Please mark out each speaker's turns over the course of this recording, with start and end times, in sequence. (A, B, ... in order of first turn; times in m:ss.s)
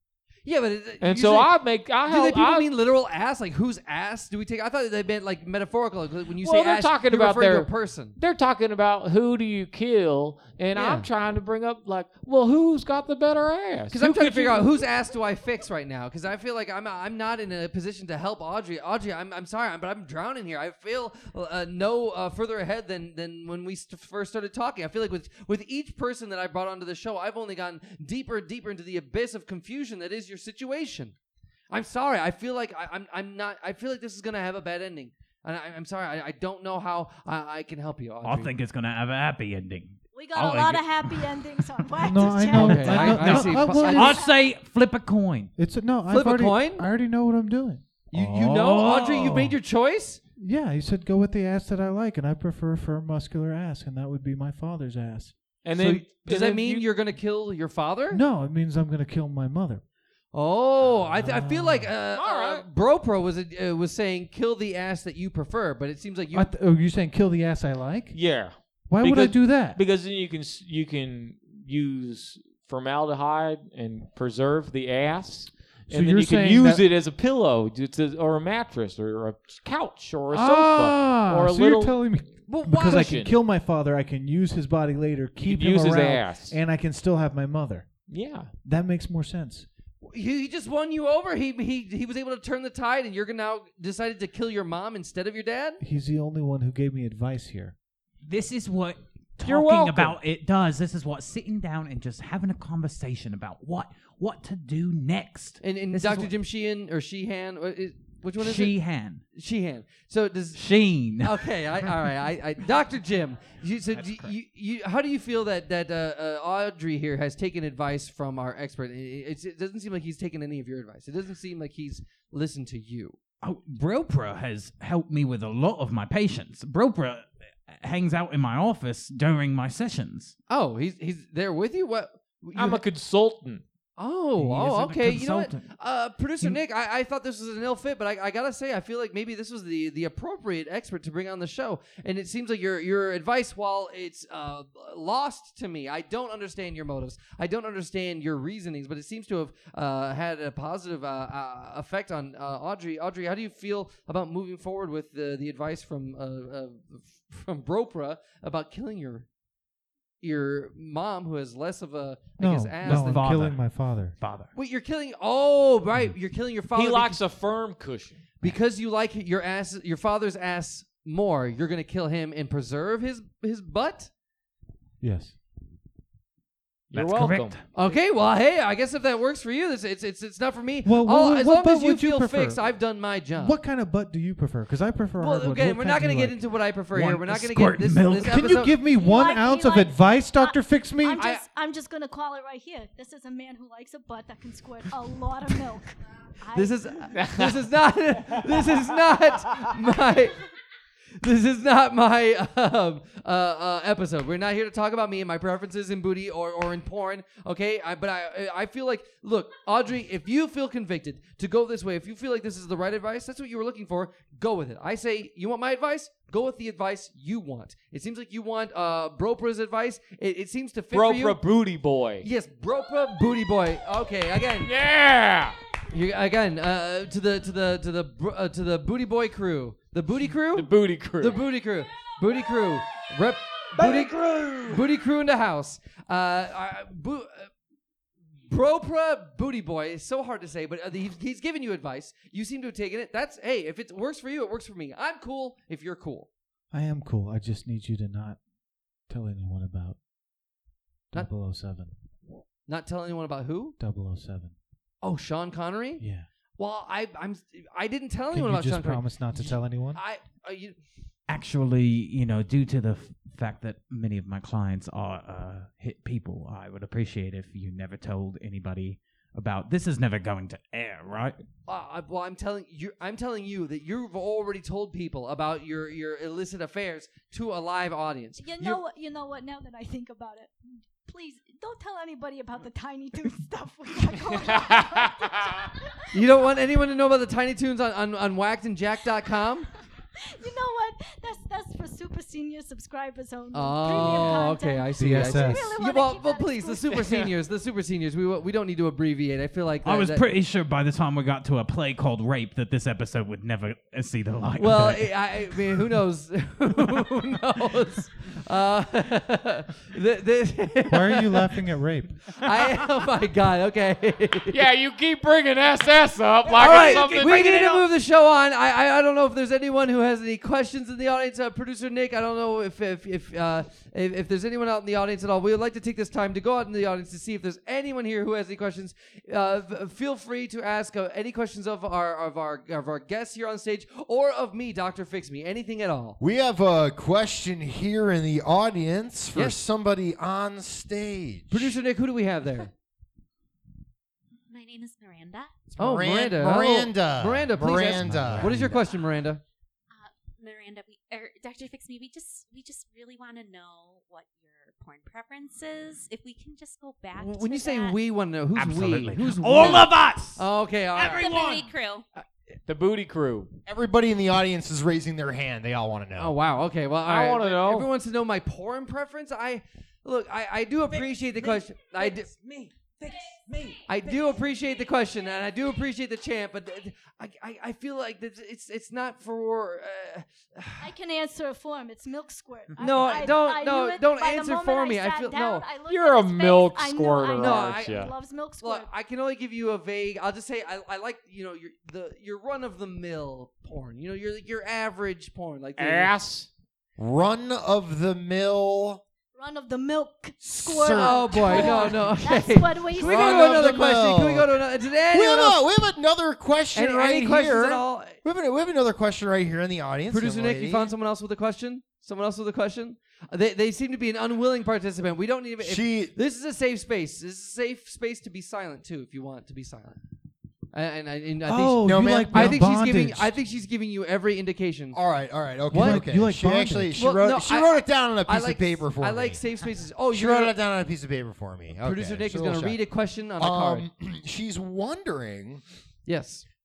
0:00.4-0:01.5 A
0:01.0-0:02.7 B
0:02.0-0:08.2 A
0:06.4-0:14.8 B
0:10.7-0:11.1 A
0:13.9-0:31.1 A
0:31.7-0:38.5 A
0:38.2-0:45.5 C
0:40.1-0:44.4 D
0:42.0-0:44.2 E
0:42.5-0:44.2 A
0:45.6-0:48.1 E
0:46.1-0:46.8 A
0:48.1-0:50.2 A
0:48.1-0:49.5 C
0:50.4-0:55.3 E
0:55.6-0:56.9 B
0:55.7-0:58.2 A
0:58.1-0:59.8 E
1:00.3-1:06.5 A
1:00.8-1:01.9 E
1:02.1-1:02.6 B
1:06.3-1:09.8 E
1:08.1-1:22.2 B
1:15.9-1:16.8 E
1:20.3-1:28.1 E
1:22.5-1:23.2 A
1:22.9-1:23.3 B
1:25.4-1:26.6 B
1:28.1-1:28.5 B
1:28.6-1:29.7 E
1:30.0-1:35.8 A
1:35.8-1:37.7 E
1:38.2-1:46.3 C
1:39.4-1:40.2 B
1:45.6-1:48.8 A
1:48.4-1:49.2 C
1:49.3-1:50.6 A
1:50.5-1:51.9 C
1:51.2-2:03.2 A
1:53.9-1:54.3 C
2:03.4-2:10.4 C
2:10.5-2:12.8 A
2:12.5-2:13.6 B
2:14.0-2:39.3 A
2:14.4-2:15.7 C
2:40.2-2:43.5 A
2:42.4-2:44.2 E
2:42.8-2:44.5 C
2:44.5-2:47.2 A
2:46.7-2:48.3 B
2:48.4-2:54.1 A
2:55.0-2:55.4 E
2:56.9-2:57.6 B
2:56.9-2:57.6 C
2:57.7-3:03.6 A
3:00.8-3:02.6 E
3:03.3-3:06.5 E
3:05.2-3:08.7 A
3:06.9-3:08.5 C
3:08.2-3:11.3 E
3:08.9-3:17.1 D
3:11.2-3:11.4 A
3:16.5-3:20.4 A
3:17.1-3:17.6 B
3:21.2-3:41.4 A
3:40.9-3:42.2 B
3:42.2-3:44.7 A
3:44.6-3:45.6 B
3:45.9-3:57.5 A
3:50.5-3:51.4 B
3:53.8-3:54.8 C
3:58.5-4:06.3 A
4:06.7-4:08.4 E
4:09.0-4:10.0 E
4:11.1-4:11.9 E
4:12.6-4:13.8 A
4:13.8-4:14.5 E
4:15.0-4:16.0 A
4:16.0-4:16.3 E
4:16.6-4:20.8 A
4:18.3-4:20.0 E
4:21.3-4:31.4 C
4:31.7-4:38.8 A
4:38.4-4:46.2 D
4:44.4-4:45.5 B
4:46.1-4:49.7 A
4:50.3-4:57.0 D
4:53.5-5:00.2 A
4:55.0-4:55.8 E
4:59.8-5:05.1 C
5:04.6-5:11.6 A
5:10.9-5:12.4 E
5:12.3-5:14.6 A
5:14.5-5:17.6 B
5:16.4-5:17.9 C
5:16.6-5:36.2 A
5:36.2-5:41.7 F
5:41.5-5:42.7 A
5:44.5-5:45.5 G
5:45.7-5:48.6 F
5:45.8-5:49.4 A
5:47.8-5:48.8 E
5:49.9-5:58.0 G
5:57.2-6:01.3 A
5:58.6-6:00.4 C
6:00.9-6:01.6 C
6:01.0-6:02.0 G
6:02.6-6:03.5 B
6:03.6-6:06.3 F
6:06.2-6:12.3 A
6:07.0-6:07.9 B
6:10.9-6:14.4 C
6:13.9-6:20.9 A
6:20.8-6:28.9 D
6:22.8-6:23.0 C
6:22.8-6:25.7 A
6:25.8-6:28.1 B
6:27.4-6:36.1 A
6:35.8-6:36.5 B
6:37.0-6:39.0 F
6:39.4-6:43.8 D
6:40.4-6:42.2 F
6:40.9-6:45.6 A
6:42.9-6:44.5 F
6:45.1-6:50.9 F
6:46.7-6:48.2 A
6:50.1-7:00.0 A
6:55.6-6:56.1 F
7:00.7-7:05.0 A
7:01.4-7:03.4 E
7:01.8-7:02.6 F
7:04.9-7:09.4 F
7:05.7-7:06.1 A
7:05.7-7:07.0 E
7:07.0-7:10.5 A
7:10.1-7:12.8 F
7:11.8-7:13.9 A
7:13.4-7:15.6 F
7:16.0-7:16.4 A